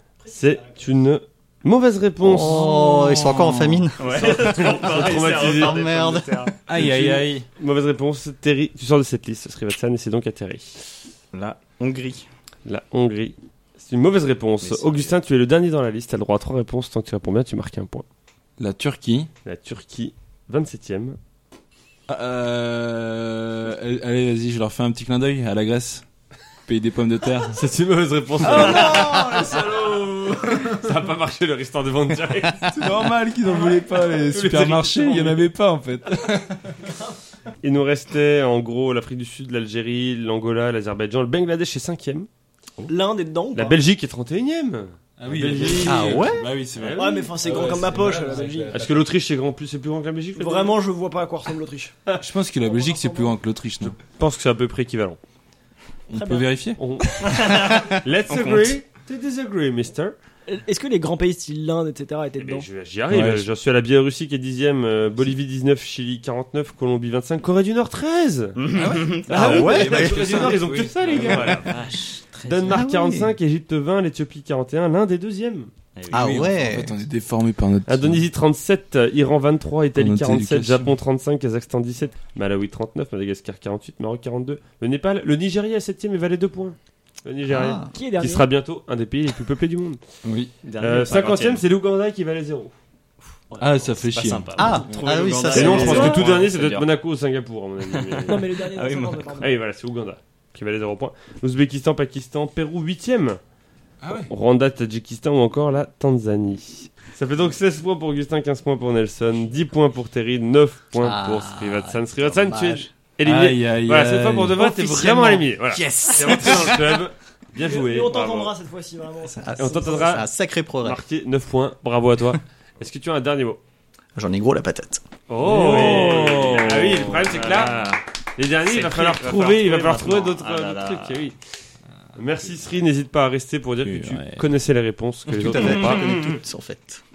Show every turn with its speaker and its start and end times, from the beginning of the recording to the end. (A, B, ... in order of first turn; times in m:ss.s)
0:00.2-0:02.7 A
0:02.2-0:06.4 B
0:02.4-0:03.8 C
0:04.0-0:06.5 D
0:04.0-0:05.8 A
0:06.7-0:07.4 C
0:06.8-0:10.8 A
0:11.3-0:12.2 D
0:12.6-0:18.0 A
0:14.6-0:15.1 D
0:18.6-0:19.3 C
0:19.4-0:21.2 A
0:22.1-0:26.0 C
0:26.6-0:27.6 C
0:27.5-0:29.2 A
0:28.4-0:30.7 C
0:30.6-0:32.7 A
0:32.7-0:36.6 C
0:33.7-0:35.4 A
0:37.6-0:42.3 A
0:42.9-0:43.8 E
0:43.5-0:47.8 A
0:45.2-0:49.0 C
0:45.8-0:46.5 B
0:46.9-0:48.7 E
0:48.7-0:50.8 A
0:50.3-0:51.9 E
0:52.2-0:54.0 C
0:52.6-0:53.4 E
0:53.8-0:55.2 A
0:56.1-0:56.8 C
0:56.1-0:56.5 E
0:56.7-1:00.1 A
0:57.2-0:58.8 D
1:00.5-1:02.7 E
1:02.4-1:08.7 A
1:03.1-1:03.5 C
1:08.6-1:09.8 D
1:08.7-1:11.7 C
1:09.3-1:11.8 A
1:09.3-1:10.6 B
1:11.0-1:12.8 D
1:12.4-1:15.7 A
1:12.7-1:13.4 B
1:16.0-1:16.5 D
1:16.1-1:17.0 B
1:16.1-1:18.2 C
1:17.9-1:30.0 A
1:19.9-1:20.9 C
1:27.5-1:27.9 B
1:27.9-1:28.5 E
1:30.2-1:30.5 C
1:30.6-1:31.6 D
1:30.8-1:32.7 A
1:33.6-1:35.0 C
1:33.7-1:36.9 D
1:34.6-1:36.2 B
1:35.5-1:38.4 A
1:35.7-1:36.2 E
1:37.8-1:39.4 D
1:38.3-1:39.5 E
1:39.4-1:43.4 A
1:44.0-1:44.3 C
1:44.1-1:58.5 A
1:51.0-1:52.9 B
1:53.2-1:55.1 C
1:54.6-1:56.7 B
1:55.8-1:56.8 C
1:57.6-2:00.2 E
1:59.4-2:01.0 B
1:59.6-2:00.3 A
2:00.8-2:03.6 A
2:04.2-2:05.0 B
2:05.3-2:11.4 A
2:05.4-2:08.0 D
2:05.5-2:06.3 C
2:08.6-2:11.2 D
2:12.2-2:16.4 A
2:13.8-2:14.4 C
2:15.3-2:17.0 B